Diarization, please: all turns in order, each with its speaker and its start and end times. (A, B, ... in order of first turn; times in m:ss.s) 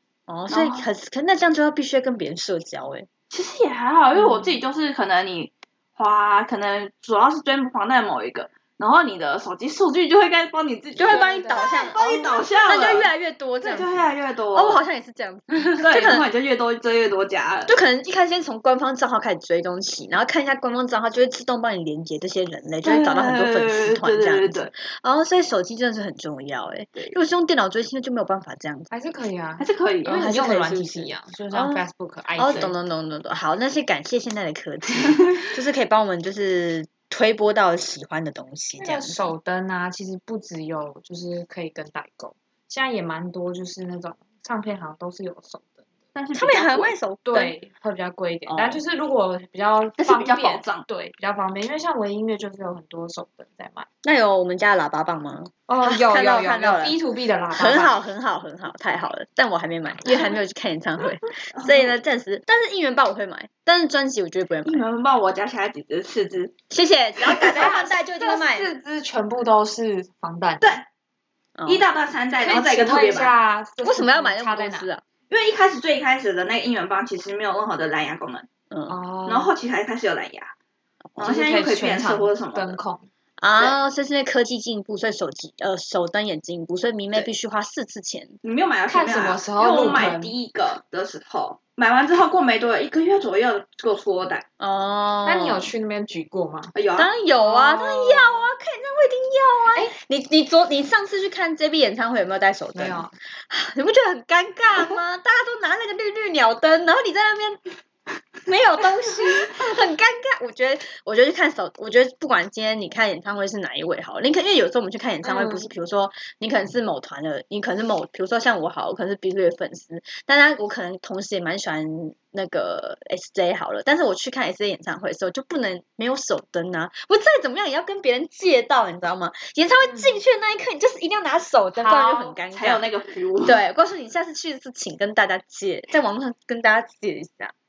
0:00.3-0:03.1 A
0:00.5-0:00.8 B
0:03.3-0:13.1 B
0:11.0-0:16.3 A
0:11.0-0:12.0 C
0:13.6-0:14.8 B
0:15.8-0:17.7 B
0:17.7-0:28.9 A
0:22.8-0:24.7 B
0:28.9-0:32.7 C
0:29.6-0:30.3 B
0:30.1-0:31.8 A
0:32.4-0:39.2 A
0:38.8-0:45.8 C
0:46.1-0:46.9 B
0:46.3-0:47.5 A
0:47.2-0:53.9 C
0:48.5-0:48.8 A
0:50.0-0:50.8 B
0:54.0-0:57.0 A
0:55.7-0:58.0 C
0:57.5-1:04.8 A
1:01.5-1:01.9 B
1:04.6-1:06.5 B
1:06.7-1:08.7 A
1:07.3-1:07.6 B
1:07.4-1:10.8 C
1:11.6-1:11.8 A
1:11.6-1:13.3 B
1:12.4-1:14.9 C
1:13.8-1:15.0 A
1:15.3-1:18.5 B
1:18.7-1:19.0 A
1:18.9-1:19.5 C
1:19.2-1:20.5 B
1:21.2-1:22.8 B
1:21.2-1:23.1 C
1:23.4-1:28.4 A
1:28.4-1:34.4 B
1:28.9-1:30.3 C
1:34.6-1:35.7 A
1:35.2-1:36.7 C
1:36.7-1:37.1 B
1:37.0-1:47.6 A
1:37.4-1:38.4 C
1:42.7-1:43.1 C
1:48.4-2:12.9 A
1:55.2-1:55.7 C
2:09.9-2:10.2 C
2:11.8-2:12.4 C
2:12.5-2:13.6 B
2:13.4-2:17.5 A